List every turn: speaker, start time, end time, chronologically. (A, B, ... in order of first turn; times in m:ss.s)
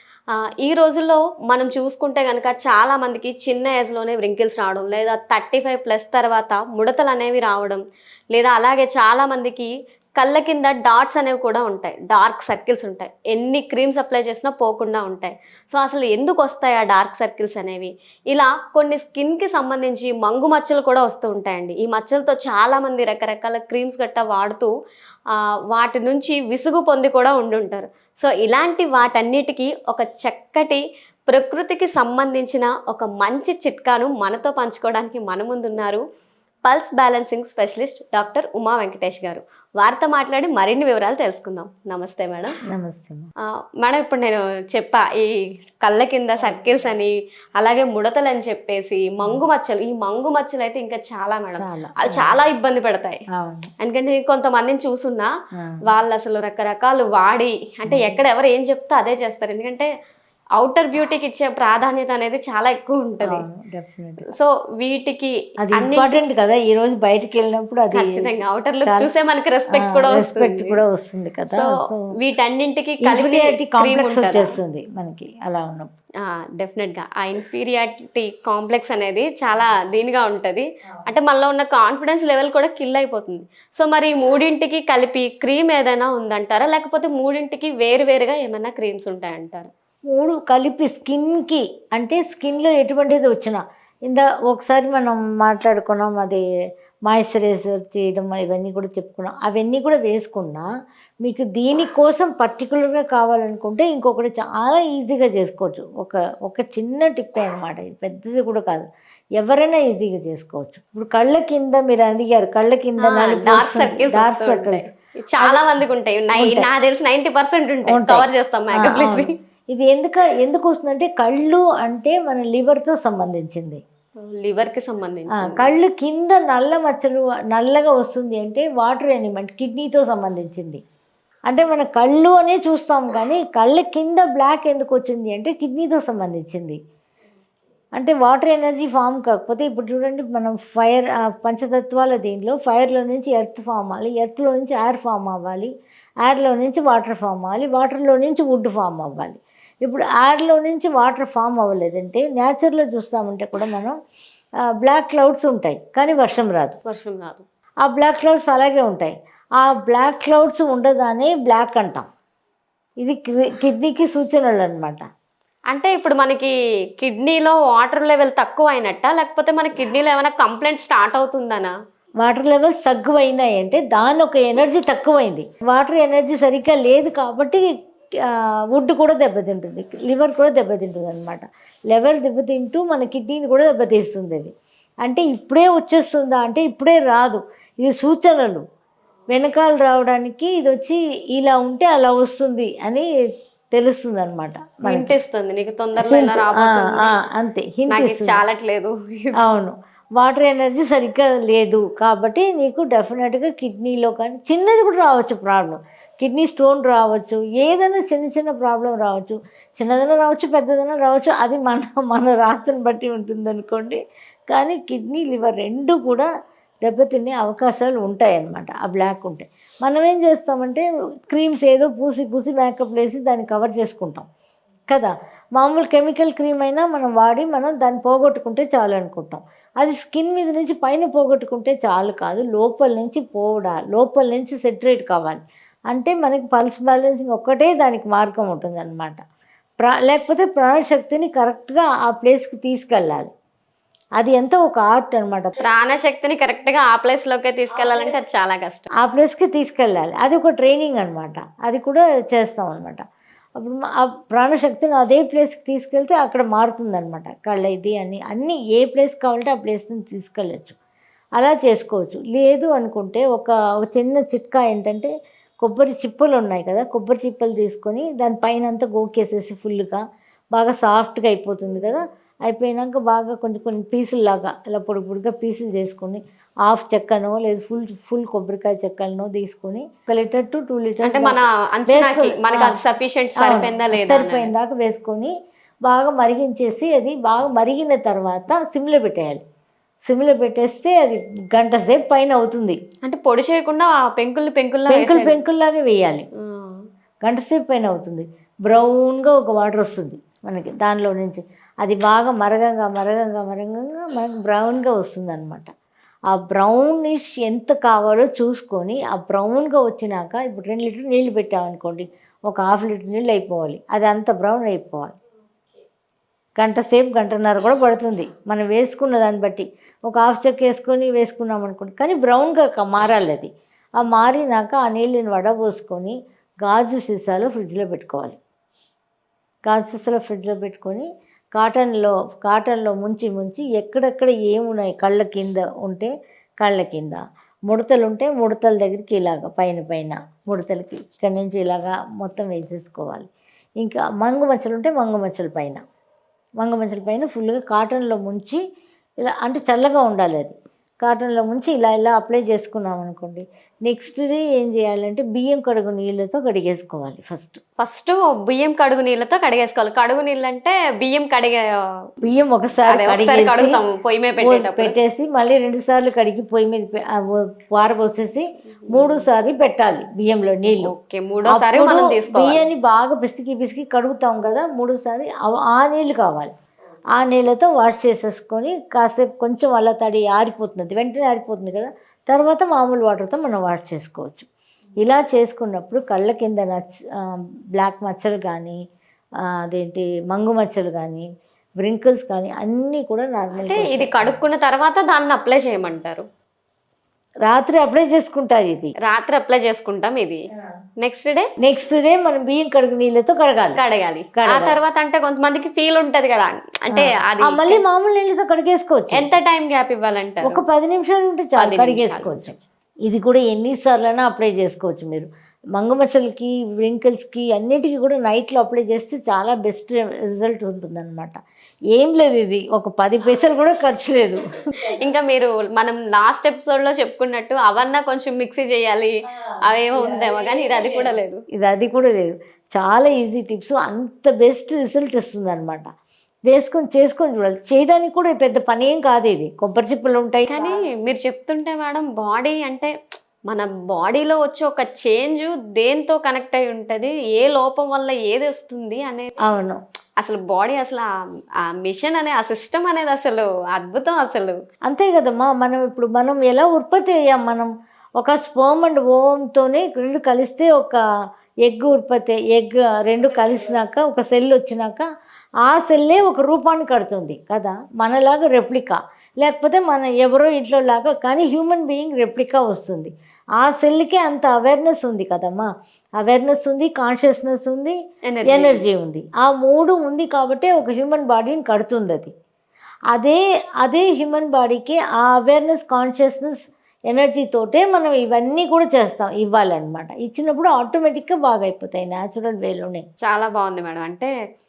0:00.3-0:07.8 A
0:08.3-0:24.7 A
0:25.3-0:36.0 A
0:36.7-0:42.5 A
0:42.7-0:43.3 B
0:43.8-0:45.3 A
0:45.8-0:53.2 A
0:46.4-0:46.8 B
0:51.6-0:52.4 B
0:53.3-0:53.7 B
0:53.8-0:55.3 A
0:55.9-0:59.9 A
0:57.9-0:58.2 B
1:00.6-1:03.4 A
1:03.2-1:04.2 B
1:04.3-1:06.2 A
1:05.6-1:08.3 B
1:07.9-1:10.8 A
1:09.8-1:12.0 B
1:11.5-1:14.6 A
1:13.0-1:15.9 B
1:16.2-1:29.7 A
1:30.1-1:36.4 B
1:37.1-1:40.7 B
1:41.2-1:48.9 B
1:49.4-1:54.9 B
1:53.0-1:59.3 A
1:55.4-1:55.6 B
1:56.4-1:56.7 B
1:57.9-2:03.8 B
2:04.2-2:05.7 A
2:05.3-2:10.8 B
2:11.5-2:16.8 B
2:18.0-2:25.7 B
2:26.2-2:34.0 B
2:34.6-2:36.8 B
2:36.8-2:37.4 A
2:37.8-2:42.1 B
2:43.0-2:45.0 B
2:45.7-2:51.7 A
2:52.2-2:57.7 B
2:58.3-3:08.6 B
3:09.3-3:13.1 B
3:13.7-3:15.1 B
3:14.8-3:17.1 A
3:16.0-3:18.4 B
3:17.9-3:19.4 A
3:19.4-3:34.0 B
3:34.5-3:36.3 B
3:36.8-3:44.2 B
3:44.9-3:59.2 B
3:59.8-4:03.3 B
4:04.2-4:05.6 B
4:05.6-4:08.9 A
4:07.8-4:08.1 B
4:09.0-4:13.0 B
4:13.6-4:20.8 B
4:21.4-4:25.1 B
4:25.6-4:30.0 B
4:30.5-4:42.8 B
4:41.0-4:44.5 A
4:43.4-4:45.3 B
4:45.8-4:49.4 B
4:50.0-4:52.8 B
4:53.0-4:55.4 A
4:54.9-4:56.3 B
4:56.4-4:56.8 A
4:57.2-5:05.7 B
5:06.3-5:15.2 B
5:16.6-5:28.4 B
5:29.7-5:43.3 B
5:43.8-5:45.8 B
5:46.6-5:48.6 B
5:49.2-5:57.6 B
5:57.8-6:01.6 A
6:02.2-6:03.8 B
6:02.9-6:04.9 A
6:04.4-6:10.9 B
6:08.9-6:09.2 A
6:10.7-6:12.6 A
6:11.5-6:16.5 B
6:17.2-6:24.5 B
6:25.0-6:28.8 B
6:29.5-6:31.3 B
6:31.8-6:34.4 B
6:33.6-6:36.2 A
6:37.4-6:38.9 B
6:39.0-6:40.4 A
6:41.0-6:41.5 A
6:41.6-6:43.8 B
6:43.8-6:47.8 A
6:44.4-6:44.8 B
6:46.9-6:49.3 B
6:49.1-6:50.6 A
6:50.4-6:52.5 B
6:51.6-6:52.6 A
6:53.0-7:01.4 B
7:01.9-7:05.0 B
7:04.8-7:09.1 A
7:09.3-7:15.8 B
7:09.6-7:11.4 A
7:16.5-7:20.8 B
7:20.5-7:22.9 A
7:23.5-7:29.3 A
7:29.4-7:29.8 B
7:30.2-7:31.1 A
7:31.6-7:34.6 A
7:34.8-7:41.0 B
7:41.6-7:45.1 B
7:43.2-7:43.9 A
7:45.6-7:55.7 B
7:56.2-8:02.3 B
7:58.3-7:58.8 A
8:03.1-8:13.0 B
8:13.2-8:14.3 A